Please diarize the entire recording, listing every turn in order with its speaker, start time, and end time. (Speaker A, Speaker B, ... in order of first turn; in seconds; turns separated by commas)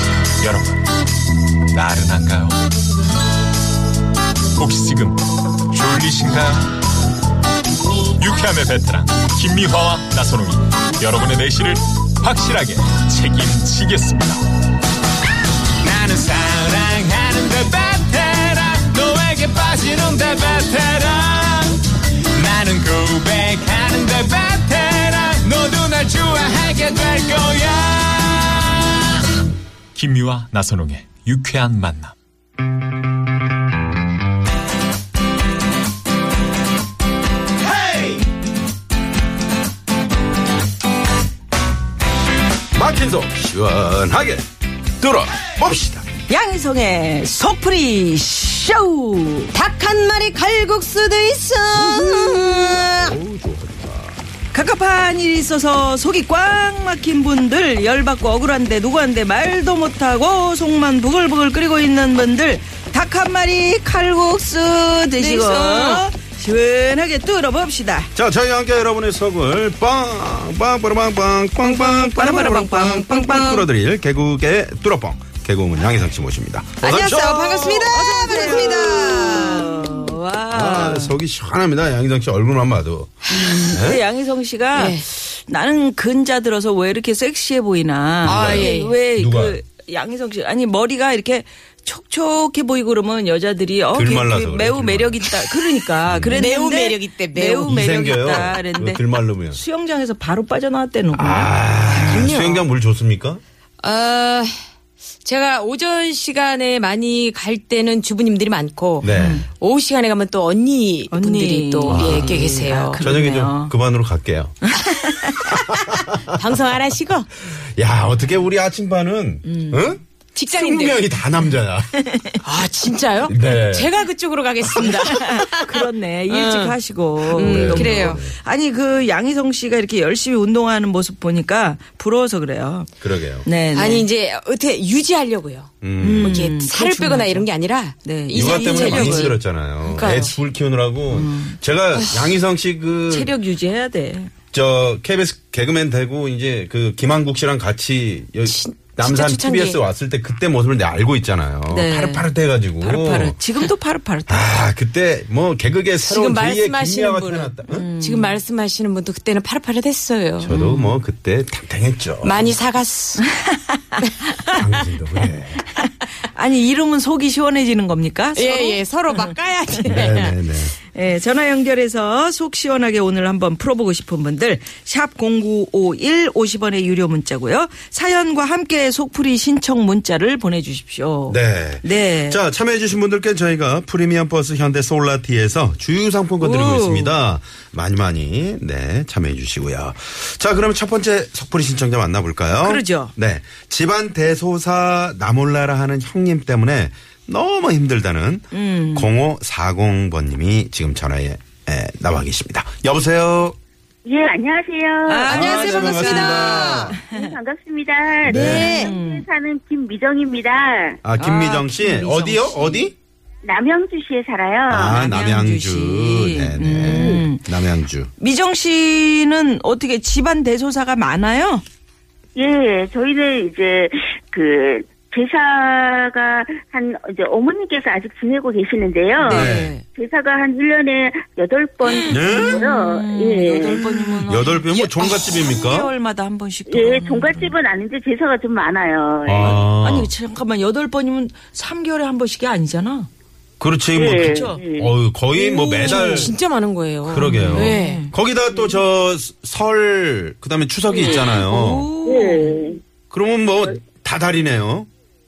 Speaker A: 0.4-0.8, Speaker A: 1.7-2.6, Speaker A: 4.5-5.2, Speaker A: 5.7-6.7, Speaker A: 8.1-14.4, Speaker A: 15.8-21.8, Speaker A: 22.4-28.9, Speaker A: 29.9-32.1, Speaker B: 37.8-38.2, Speaker B: 42.7-44.4, Speaker B: 45.0-46.0, Speaker C: 46.3-49.5, Speaker D: 49.5-53.2, Speaker B: 51.8-54.2, Speaker C: 54.5-68.1, Speaker D: 65.2-66.1, Speaker B: 68.1-77.8, Speaker C: 71.7-73.1, Speaker D: 72.8-73.6, Speaker D: 76.8-79.9, Speaker C: 77.2-81.2, Speaker B: 80.5-84.0, Speaker C: 83.3-102.3, Speaker D: 83.3-83.7, Speaker D: 84.7-85.0, Speaker B: 88.2-89.6, Speaker D: 88.2-88.9, Speaker B: 93.9-95.3, Speaker B: 96.0-96.5, Speaker D: 96.3-97.7, Speaker B: 97.6-99.6, Speaker B: 101.1-103.4, Speaker D: 102.0-102.6, Speaker D: 103.8-104.5, Speaker D: 105.2-113.0, Speaker B: 109.0-109.4, Speaker C: 109.1-109.5, Speaker C: 111.1-113.7, Speaker B: 111.8-112.5, Speaker B: 113.0-114.7, Speaker C: 114.7-115.5, Speaker B: 115.5-116.0, Speaker D: 116.3-117.4, Speaker B: 117.5-121.9, Speaker C: 119.4-119.9, Speaker D: 120.3-121.0, Speaker D: 122.4-126.8, Speaker B: 123.2-123.9, Speaker C: 124.8-132.9, Speaker D: 127.3-128.2, Speaker B: 127.3-128.3, Speaker B: 133.0-133.5, Speaker C: 133.4-134.1, Speaker D: 133.7-139.3, Speaker B: 135.8-136.4, Speaker C: 136.0-137.5, Speaker C: 138.0-139.3, Speaker B: 138.3-143.3, Speaker D: 139.8-140.4, Speaker C: 141.1-141.6, Speaker D: 141.9-142.3, Speaker C: 143.1-144.3, Speaker B: 144.5-153.4, Speaker D: 148.5-149.8, Speaker C: 151.7-152.3, Speaker C: 152.8-154.5, Speaker B: 154.3-157.9, Speaker D: 156.0-160.5, Speaker C: 157.7-158.4, Speaker B: 160.4-162.4, Speaker C: 160.5-161.0, Speaker D: 162.2-163.2, Speaker B: 164.5-165.6, Speaker C: 165.8-169.3, Speaker D: 168.3-170.3, Speaker B: 169.8-170.7, Speaker C: 170.9-182.4, Speaker B: 181.3-203.6, Speaker C: 186.4-187.1, Speaker C: 192.6-193.1, Speaker C: 198.5-199.1, Speaker E: 204.0-205.3, Speaker C: 205.1-207.3, Speaker D: 205.3-206.9, Speaker B: 205.3-207.0, Speaker E: 207.1-211.0, Speaker B: 208.2-208.7, Speaker C: 208.3-209.2, Speaker D: 208.3-208.9, Speaker B: 211.0-212.9, Speaker C: 211.2-212.9, Speaker E: 213.4-215.0, Speaker B: 214.7-218.1, Speaker C: 214.9-217.5, Speaker C: 218.2-221.6, Speaker E: 222.3-233.8, Speaker C: 229.2-229.8, Speaker B: 229.3-229.8, Speaker C: 231.8-237.5, Speaker B: 232.1-232.6, Speaker B: 234.2-235.9, Speaker E: 236.7-239.6, Speaker B: 239.2-240.1, Speaker C: 239.4-243.1, Speaker B: 243.6-246.3, Speaker E: 243.9-244.9, Speaker C: 244.3-244.6, Speaker D: 245.4-248.0, Speaker C: 245.6-246.3, Speaker B: 247.1-251.9, Speaker C: 247.2-248.1, Speaker C: 250.9-252.6, Speaker E: 252.1-252.8, Speaker B: 253.1-254.9